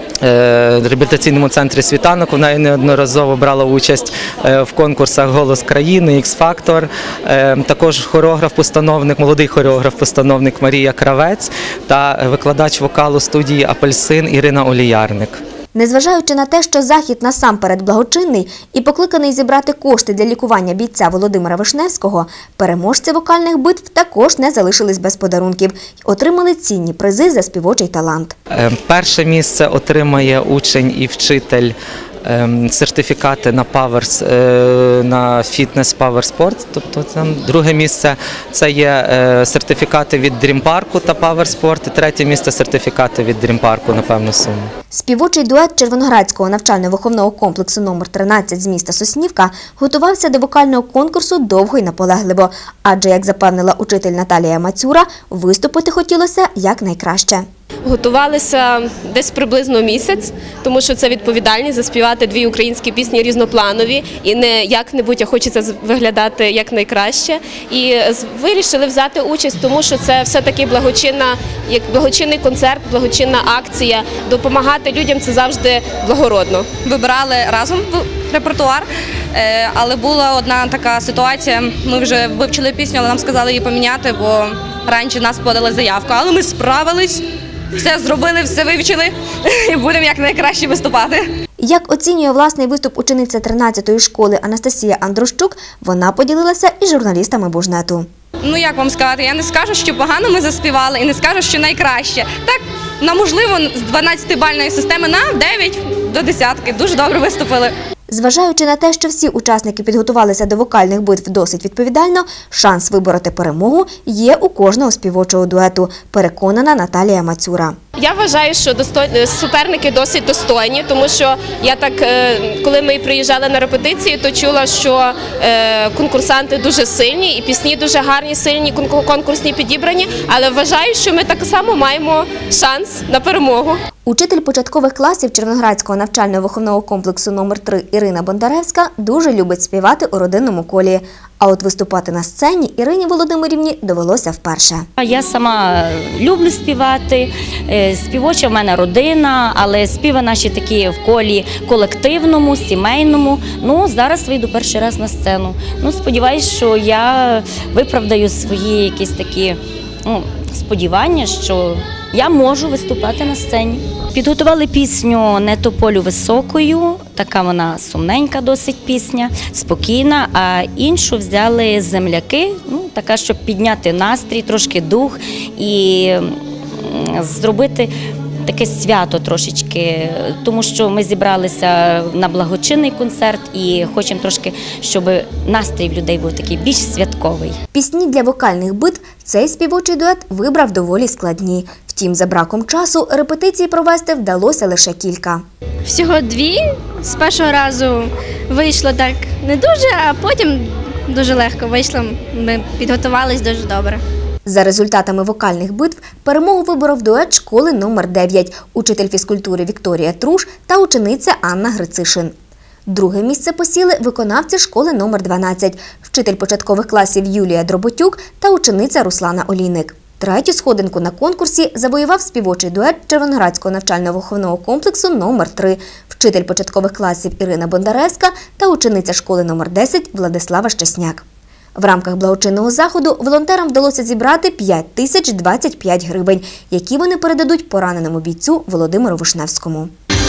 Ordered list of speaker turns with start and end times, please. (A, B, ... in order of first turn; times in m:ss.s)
0:00.2-0:15.4 A
0:15.7-0:28.4 B
0:28.5-0:31.7 A
0:32.3-0:44.7 A
0:44.9-0:57.4 B
0:57.8-1:16.7 C
1:16.9-1:18.9 D
1:19.4-1:27.2 D
1:27.8-1:31.2 D
1:31.6-1:38.1 B
1:38.4-1:47.7 D
1:48.1-1:57.8 B
1:58.0-2:13.8 C
2:14.1-2:24.9 B
2:25.0-2:57.9 E
2:58.4-3:07.6 E
3:07.7-3:15.4 B
3:15.9-3:24.0 F
3:24.5-3:32.3 B
3:32.9-3:51.2 B
3:51.8-3:59.9 B